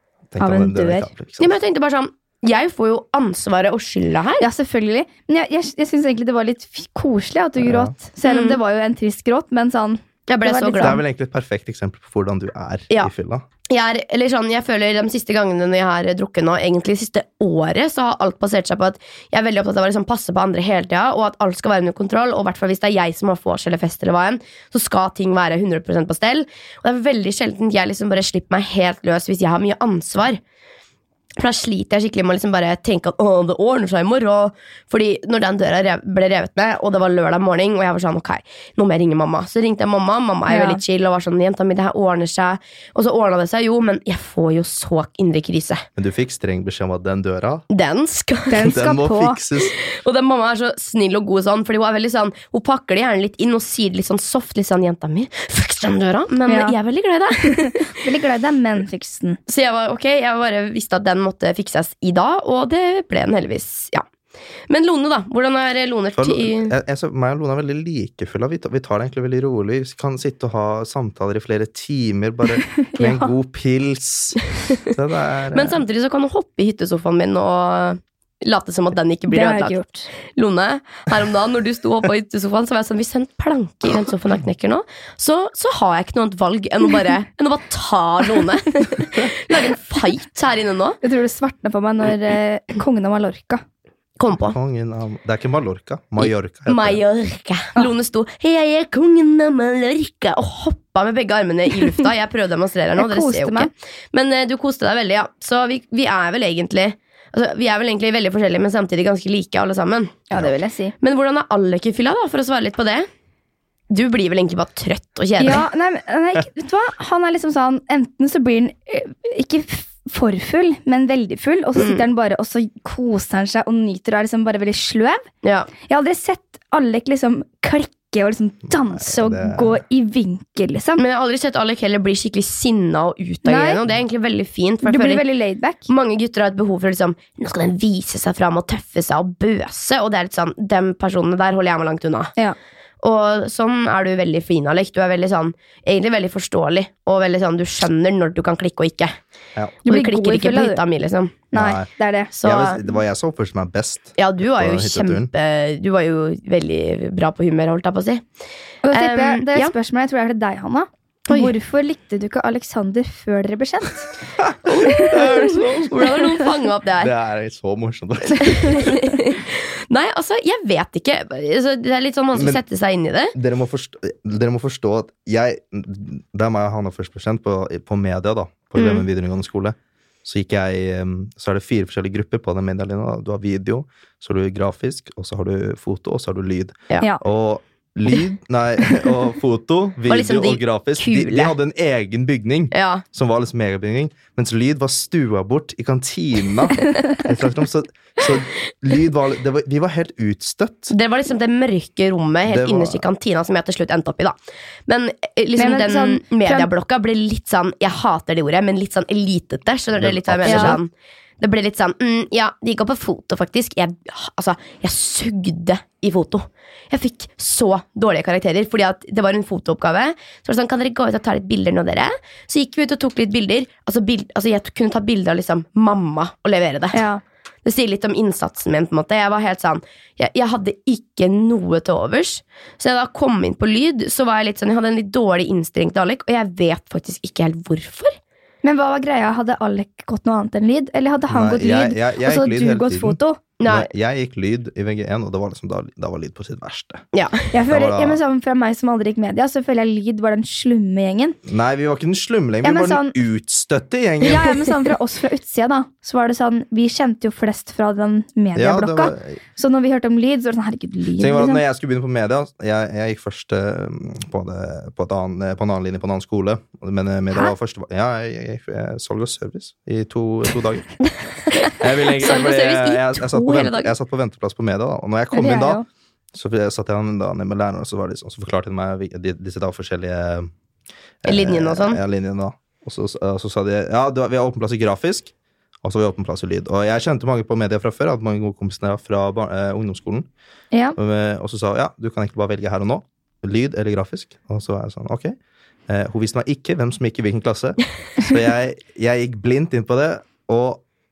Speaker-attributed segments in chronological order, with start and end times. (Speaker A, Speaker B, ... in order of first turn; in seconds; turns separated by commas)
Speaker A: 0.3-1.6, Speaker B: 0.4-1.1, Speaker C: 1.4-4.5, Speaker B: 4.4-11.0, Speaker A: 7.6-7.9, Speaker C: 8.2-8.6, Speaker C: 10.3-11.0, Speaker A: 10.8-13.4, Speaker C: 13.7-30.4, Speaker C: 31.4-45.9, Speaker B: 40.5-40.8, Speaker A: 46.0-47.6, Speaker C: 47.7-48.8, Speaker B: 48.5-49.4, Speaker A: 48.6-49.8, Speaker C: 49.8-57.9, Speaker B: 56.5-56.8, Speaker B: 57.4-59.4, Speaker C: 59.5-64.0, Speaker C: 64.7-66.7, Speaker A: 66.2-75.8, Speaker B: 72.7-73.3, Speaker C: 75.5-91.0, Speaker B: 79.3-80.1, Speaker B: 91.0-93.6, Speaker C: 94.2-94.6, Speaker A: 94.5-97.0, Speaker C: 96.2-110.3, Speaker B: 103.0-103.7, Speaker B: 110.3-110.9, Speaker C: 111.0-113.1, Speaker C: 113.9-115.7, Speaker B: 115.4-125.2, Speaker C: 121.8-122.1, Speaker C: 125.4-125.7, Speaker B: 125.8-131.0, Speaker A: 128.7-129.8, Speaker C: 131.0-135.2, Speaker B: 133.4-133.8, Speaker B: 134.8-135.9, Speaker C: 135.9-142.3, Speaker C: 143.0-149.2, Speaker B: 149.8-150.8, Speaker C: 149.9-151.4, Speaker B: 151.5-152.3, Speaker A: 151.5-151.9, Speaker C: 152.3-152.8, Speaker A: 152.4-155.3, Speaker C: 154.2-158.2, Speaker B: 158.8-164.1, Speaker C: 158.9-159.7, Speaker C: 161.3-161.5, Speaker A: 164.4-166.1, Speaker C: 164.7-167.1, Speaker A: 167.0-169.0, Speaker C: 168.4-173.3, Speaker A: 172.3-172.6, Speaker A: 173.3-200.9, Speaker C: 178.8-179.0, Speaker C: 190.1-191.5, Speaker C: 192.7-193.0, Speaker C: 200.9-204.4, Speaker A: 202.5-203.0, Speaker C: 204.9-227.1, Speaker B: 205.6-206.7, Speaker A: 210.0-210.8, Speaker B: 210.5-210.8, Speaker B: 226.9-227.2, Speaker C: 227.7-238.2, Speaker B: 238.6-243.4, Speaker A: 241.3-247.1, Speaker C: 243.6-243.9, Speaker C: 247.1-247.5, Speaker B: 247.5-251.4, Speaker A: 247.7-248.2, Speaker A: 251.5-254.7, Speaker B: 252.6-253.2, Speaker B: 254.2-261.6, Speaker A: 258.6-259.4, Speaker A: 261.2-270.9, Speaker C: 271.5-273.9, Speaker A: 271.7-275.8, Speaker B: 275.3-275.9, Speaker A: 276.3-280.5, Speaker A: 281.2-285.3, Speaker C: 281.3-282.0, Speaker A: 285.8-290.3, Speaker A: 290.9-295.4, Speaker A: 295.9-300.8